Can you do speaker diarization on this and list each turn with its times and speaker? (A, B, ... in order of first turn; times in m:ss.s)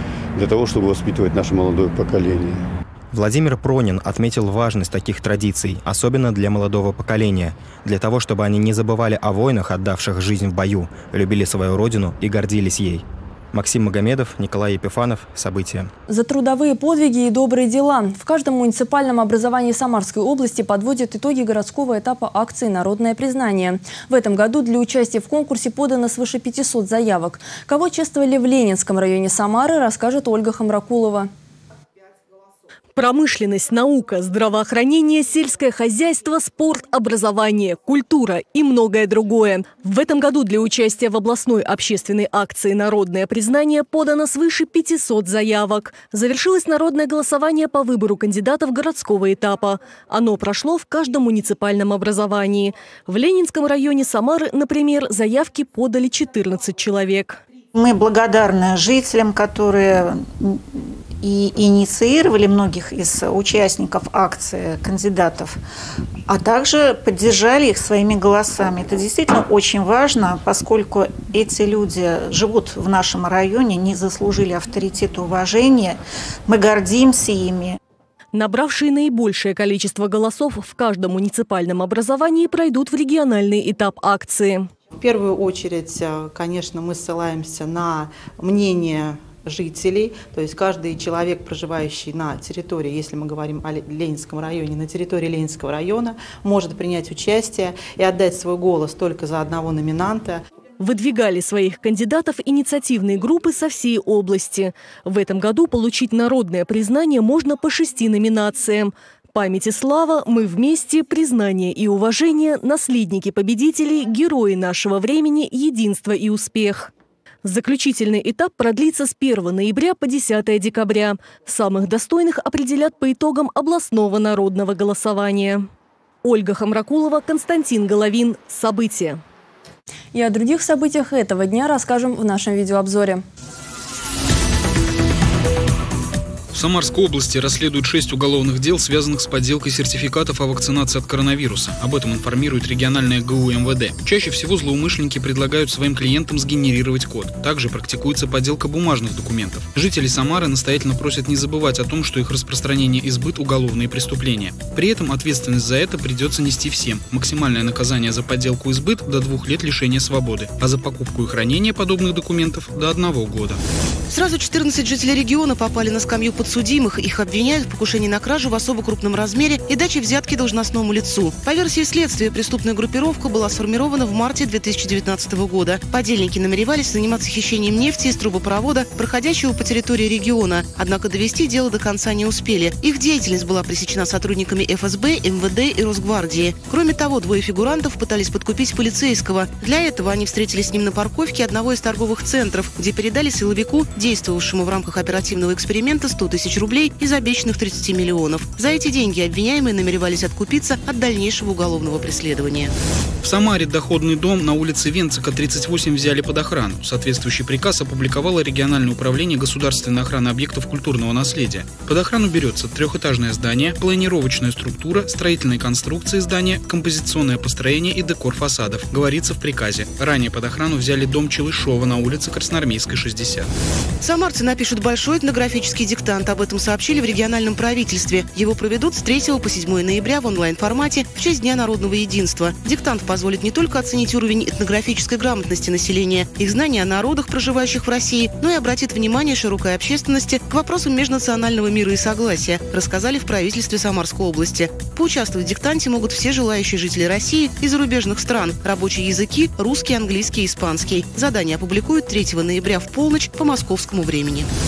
0:00.4-0:02.6 A
0:03.1-0:15.9 B
0:16.1-0:31.3 C
0:32.9-0:57.4 D
0:57.7-1:00.6 E
1:01.2-1:05.6 E
1:06.3-1:17.8 E
1:18.3-1:24.7 D
1:25.0-1:40.4 F
1:40.8-1:56.9 D
1:57.4-2:05.6 D
2:06.2-2:09.2 D
2:10.1-2:13.2 C
2:16.5-2:43.6 G
2:44.1-3:22.7 H
3:23.2-3:43.5 G
3:44.0-4:14.5 H